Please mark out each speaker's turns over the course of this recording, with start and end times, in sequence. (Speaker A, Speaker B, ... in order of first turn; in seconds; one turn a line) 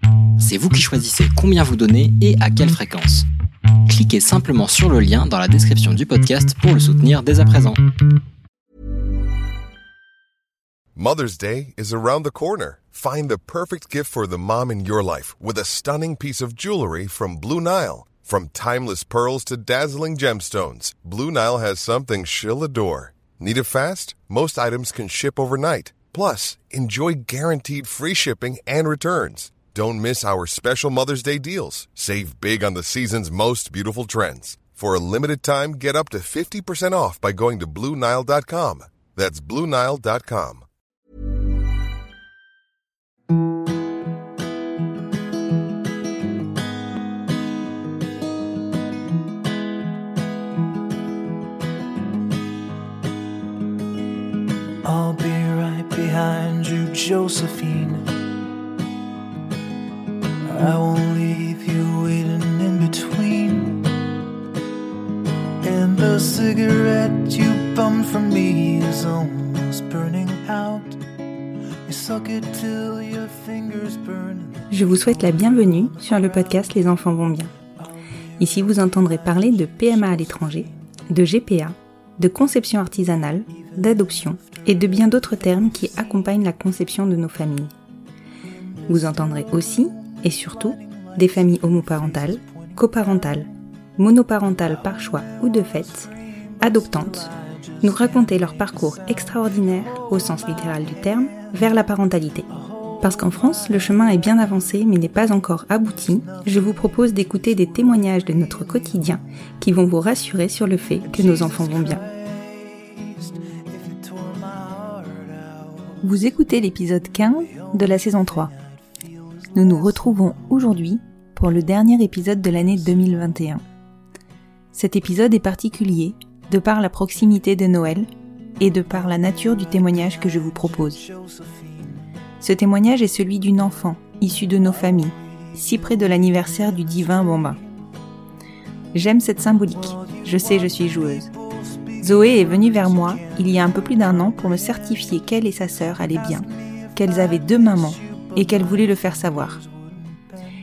Speaker A: 0.4-3.3
Speaker A: 3.9-7.8
Speaker B: 10.9-40.7
Speaker C: 54.8-58.1
Speaker C: 60.5-63.9
Speaker C: 65.6-71.0
Speaker C: 71.8-76.7
Speaker D: 74.7-77.5
Speaker C: 77.8-80.7
Speaker D: 78.4-87.7
Speaker C: 83.5-86.1
Speaker C: 88.8-93.3
Speaker D: 88.9-96.1
Speaker C: 94.6-101.7
Speaker D: 96.6-97.3
Speaker D: 97.8-102.5
Speaker C: 102.5-104.3
Speaker D: 103.0-112.0
Speaker C: 106.2-106.9
Speaker C: 111.0-116.0
Speaker D: 116.0-118.5
Speaker C: 117.2-120.6
Speaker D: 119.5-123.6
Speaker D: 124.7-128.1
Speaker D: 128.6-131.0
Speaker C: 129.2-132.0
Speaker D: 132.4-137.6
Speaker C: 134.7-137.6
Speaker D: 138.9-141.3
Speaker C: 139.7-145.2
Speaker D: 142.0-149.6
Speaker C: 146.1-150.4